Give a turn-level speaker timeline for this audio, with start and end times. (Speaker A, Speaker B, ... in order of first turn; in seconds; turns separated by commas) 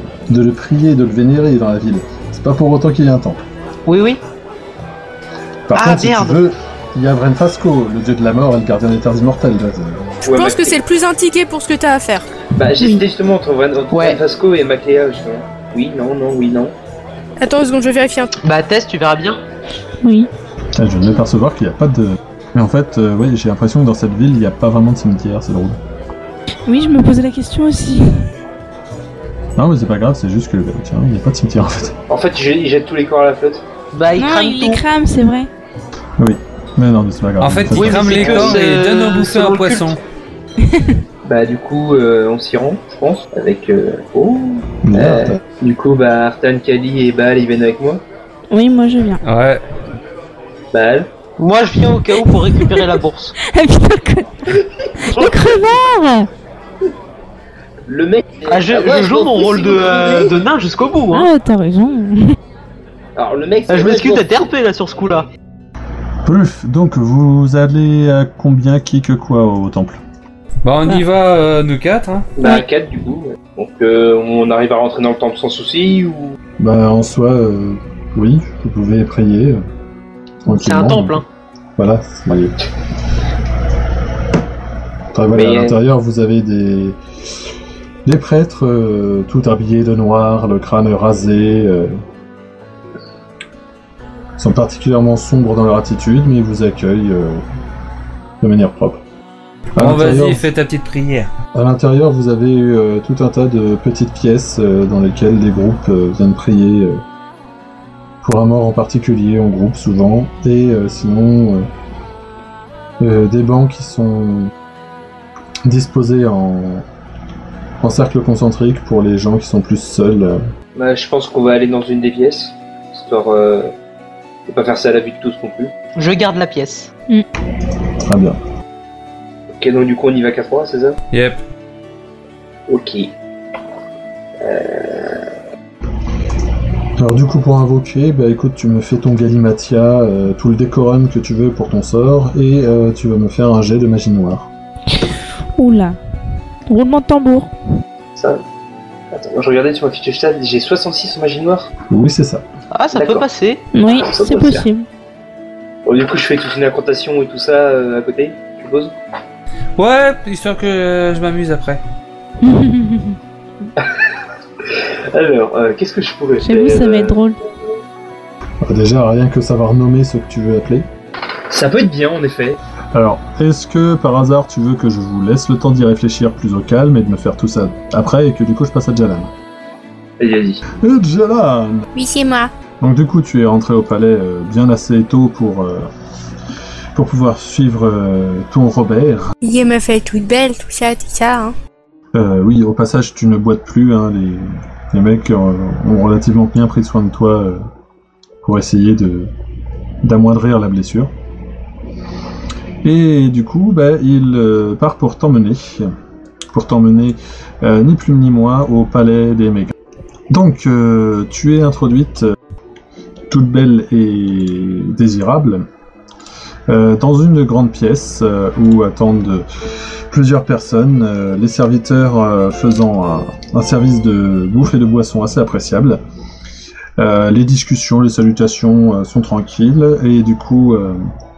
Speaker A: 0.3-3.4, Speaker B: 3.9-4.2, Speaker A: 5.7-10.1, Speaker B: 5.8-6.4, Speaker C: 10.2-10.8, Speaker D: 10.3-12.3, Speaker C: 12.6-16.7, Speaker E: 12.8-13.0, Speaker B: 13.9-14.2, Speaker D: 17.4-18.3, Speaker B: 18.4-19.4, Speaker E: 20.0-20.3, Speaker A: 20.8-25.8, Speaker E: 26.7-28.3, Speaker A: 29.6-32.0, Speaker C: 32.1-33.6, Speaker B: 33.9-34.8, Speaker E: 34.2-35.5, Speaker A: 36.2-38.4, Speaker F: 37.4-40.0, Speaker B: 37.7-40.0, Speaker C: 41.2-48.0, Speaker A: 44.9-45.4, Speaker E: 48.5-49.2, Speaker F: 49.2-49.6, Speaker C: 50.7-51.1, Speaker B: 51.4-53.3, Speaker E: 52.2-52.9, Speaker E: 53.4-56.3, Speaker C: 57.9-60.4, Speaker B: 58.5-61.3, Speaker E: 61.1-62.4, Speaker C: 63.2-64.4, Speaker B: 63.7-65.3, Speaker A: 66.2-70.0, Speaker F: 70.6-72.3, Speaker C: 72.4-76.4, Speaker A: 76.6-79.6, Speaker A: 80.5-81.2, Speaker B: 80.5-81.2, Speaker A: 81.8-82.6, Speaker A: 85.1-87.0, Speaker C: 85.4-85.7, Speaker A: 88.0-91.9, Speaker A: 94.4-97.4, Speaker A: 98.4-99.0, Speaker A: 99.8-100.5, Speaker F: 99.8-101.3, Speaker A: 101.5-107.0, Speaker A: 108.2-111.7, Speaker A: 113.0-114.5, Speaker A: 115.7-116.9, Speaker A: 117.8-120.4, Speaker C: 120.8-123.7, Speaker C: 124.5-125.7, Speaker B: 126.0-126.9, Speaker A: 128.0-128.4, Speaker C: 129.6-131.0, Speaker F: 131.1-131.4, Speaker C: 132.7-133.1, Speaker C: 134.4-135.3, Speaker A: 137.0-144.5, Speaker E: 145.6-146.0, Speaker E: 146.7-147.5, Speaker C: 148.2-148.4, Speaker C: 149.1-151.7, Speaker A: 151.9-152.4, Speaker B: 152.7-153.6, Speaker C: 152.9-153.2, Speaker E: 153.7-154.9, Speaker C: 153.9-154.7, Speaker C: 155.9-158.9, Speaker F: 159.8-161.8, Speaker E: 162.4-163.2, Speaker C: 164.7-167.2, Speaker E: 166.4-167.4, Speaker A: 168.6-170.9, Speaker C: 171.5-172.6, Speaker A: 172.9-179.3, Speaker C: 180.2-180.6, Speaker A: 180.8-181.9, Speaker D: 182.0-182.5, Speaker A: 182.8-185.9, Speaker A: 186.9-189.3, Speaker D: 189.4-191.6, Speaker A: 192.1-197.6, Speaker A: 198.4-199.3, Speaker A: 200.0-201.1, Speaker A: 202.8-205.9, Speaker A: 206.5-209.7, Speaker A: 210.3-212.3, Speaker A: 213.3-215.7, Speaker A: 216.7-226.0, Speaker A: 227.0-231.0